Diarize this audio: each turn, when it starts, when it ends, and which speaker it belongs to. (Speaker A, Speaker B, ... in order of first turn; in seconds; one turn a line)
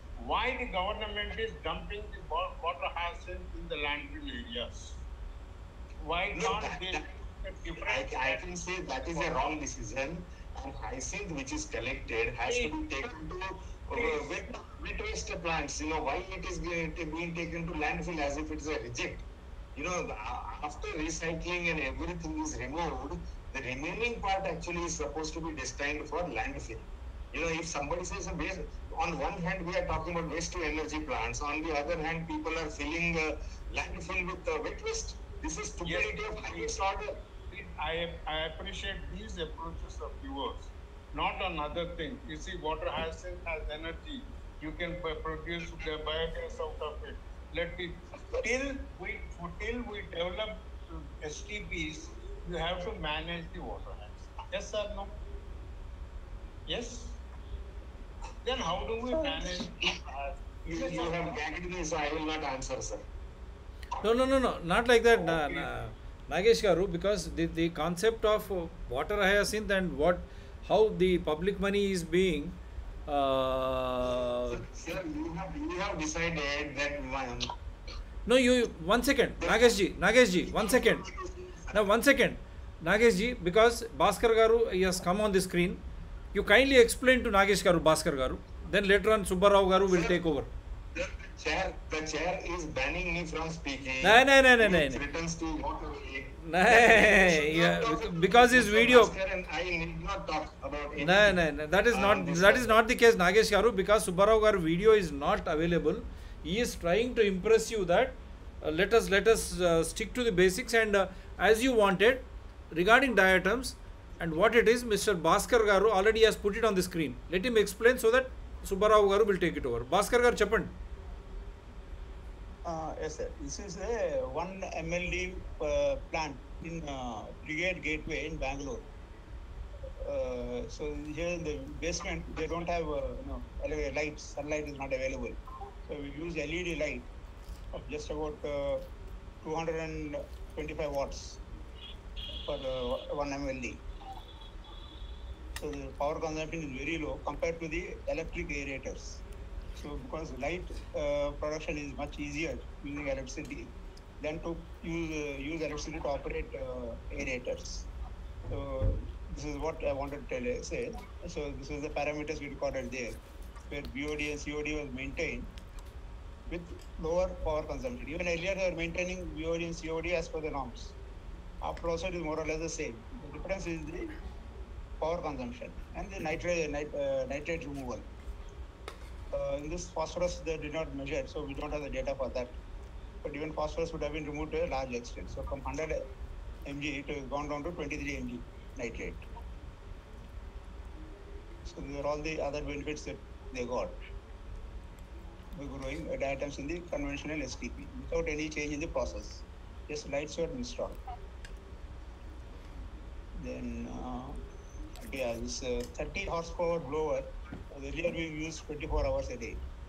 Speaker A: 0.2-5.0
Speaker A: 6.0-9.4
Speaker B: 6.3-7.2
Speaker B: 7.8-37.2
Speaker A: 12.5-12.8
Speaker A: 13.9-14.5
Speaker A: 35.9-36.8
Speaker A: 37.5-55.1
Speaker A: 56.7-57.2
Speaker A: 58.4-61.4
Speaker B: 60.7-63.1
Speaker C: 64.0-74.6
Speaker A: 65.2-65.7
Speaker B: 74.5-77.5
Speaker C: 78.3-81.1
Speaker B: 79.4-79.8
Speaker B: 80.5-81.8
Speaker C: 81.7-85.8
Speaker C: 86.3-90.5
Speaker B: 89.9-90.2
Speaker B: 91.0-102.7
Speaker C: 94.0-95.0
Speaker C: 96.5-99.1
Speaker C: 101.0-120.8
Speaker D: 122.7-128.9
Speaker D: 130.0-137.1
Speaker D: 137.7-138.9
Speaker D: 139.4-141.4
Speaker D: 142.4-143.8
Speaker D: 145.6-149.2
Speaker D: 149.8-157.9
Speaker D: 158.5-163.2
Speaker D: 163.7-165.5
Speaker D: 166.5-171.0
Speaker D: 171.6-174.1
Speaker D: 175.0-178.1
Speaker D: 179.3-182.6
Speaker D: 183.2-186.1
Speaker D: 186.7-189.2
Speaker D: 191.7-194.0
Speaker D: 195.5-201.0
Speaker D: 203.4-204.4
Speaker D: 205.1-209.6